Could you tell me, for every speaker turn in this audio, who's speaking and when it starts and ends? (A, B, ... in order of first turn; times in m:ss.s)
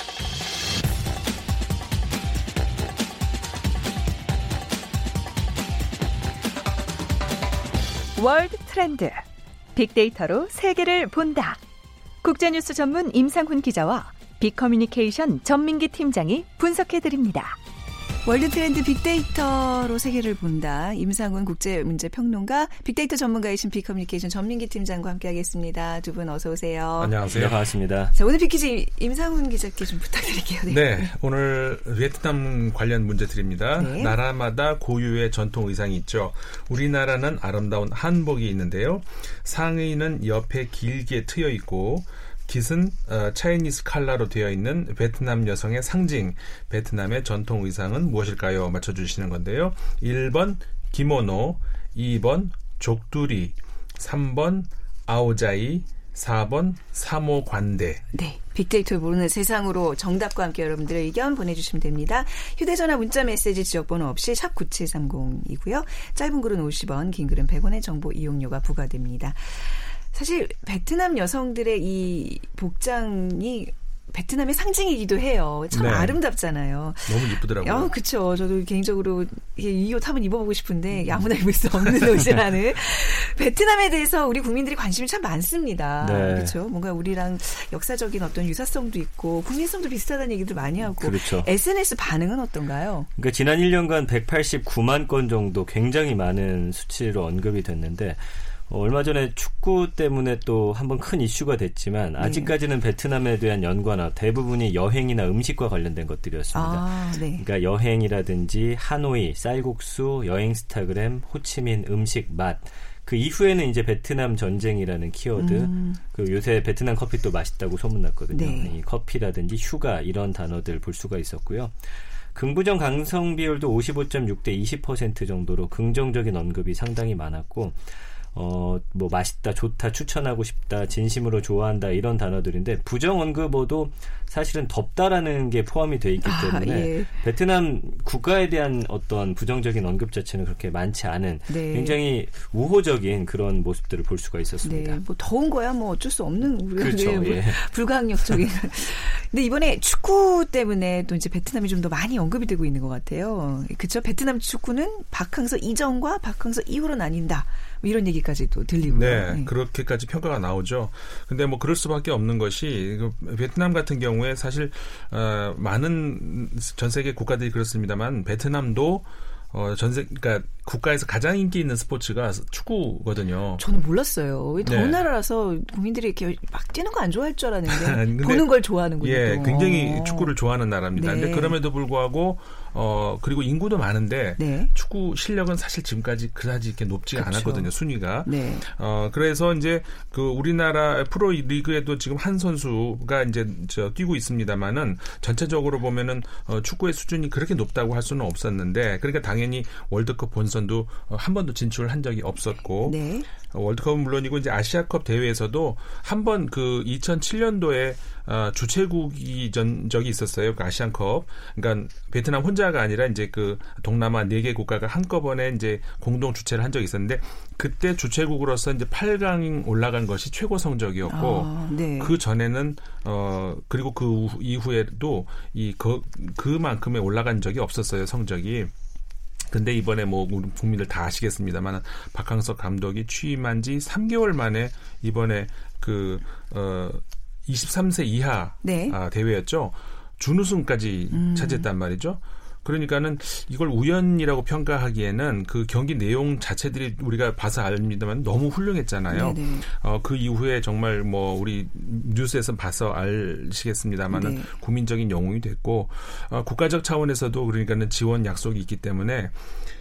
0:08.2-0:11.6 A
0:12.2-0:17.6 A
0:18.2-0:27.2 B
0:27.0-0:27.6 C
0:27.3-0:28.1 D
0:28.1-0:31.1 B
0:30.7-0:58.0 C
0:33.8-0:34.2 B
0:58.1-1:33.1 B
1:15.7-1:16.2 C
1:17.1-1:17.9 C
1:26.0-1:26.6 D
1:30.8-1:31.5 D
1:33.2-2:01.8 D
1:42.2-1:42.6 B
1:46.5-1:47.4 B
1:55.4-1:56.0 B
1:58.3-1:58.7 B
2:02.3-2:25.0 D
2:16.2-2:17.1 B
2:21.5-2:22.0 B
2:24.6-2:39.5 B
2:26.8-2:27.6 D
2:38.8-2:53.6 C
2:53.6-3:00.3 B
2:54.6-2:55.0 C
2:57.7-3:48.7 C
3:01.0-3:01.6 B
3:04.4-3:04.7 B
3:07.2-3:07.7 B
3:08.2-3:08.7 B
3:22.8-3:23.3 B
3:41.1-3:42.2 B
3:49.5-4:19.3 C
3:58.6-3:59.0 B
4:01.1-4:01.7 B
4:09.1-4:09.7 B
4:14.1-4:14.5 B